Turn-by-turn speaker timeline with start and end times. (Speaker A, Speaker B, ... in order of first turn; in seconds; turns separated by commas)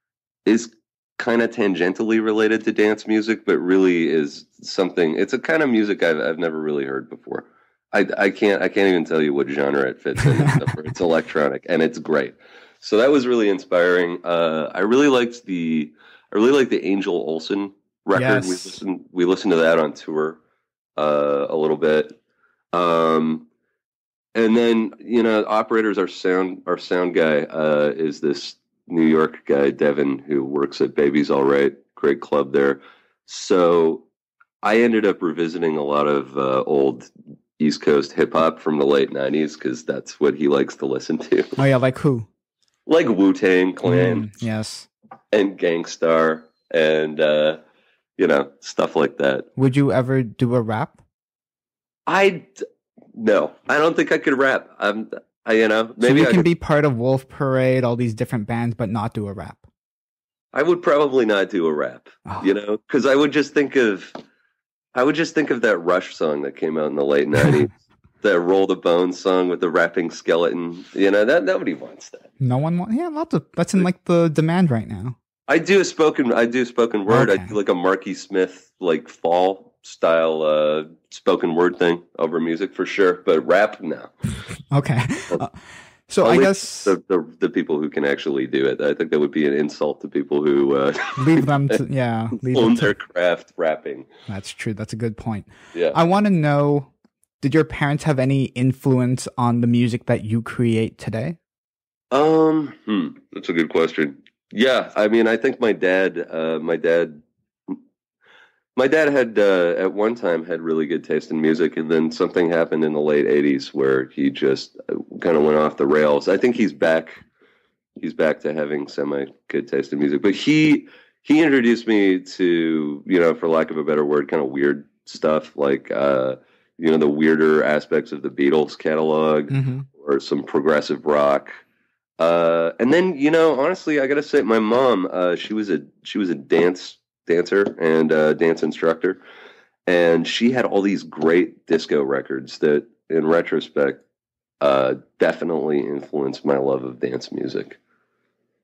Speaker A: 0.4-20.4, Speaker B: 18.1-18.8, Speaker A: 21.0-22.1, Speaker A: 22.7-23.5, Speaker A: 24.3-34.0, Speaker A: 34.6-41.6, Speaker B: 41.6-42.3, Speaker A: 42.9-44.3, Speaker B: 43.9-44.9, Speaker A: 45.3-47.6, Speaker A: 48.2-49.5, Speaker B: 49.5-51.0, Speaker A: 52.1-52.6, Speaker A: 53.1-56.5, Speaker B: 56.0-59.6, Speaker A: 60.5-64.2, Speaker A: 64.9-72.3, Speaker B: 72.4-75.2, Speaker A: 75.5-84.1, Speaker B: 77.1-77.5, Speaker B: 84.7-85.5, Speaker B: 86.1-87.0, Speaker A: 86.2-91.8, Speaker B: 91.2-93.0, Speaker A: 92.4-94.1, Speaker B: 94.3-96.9, Speaker B: 97.4-101.4, Speaker A: 102.1-107.8, Speaker A: 108.8-117.2, Speaker A: 118.0-131.5, Speaker B: 129.5-129.9, Speaker A: 132.2-139.2, Speaker A: 139.8-144.0, Speaker A: 144.6-147.8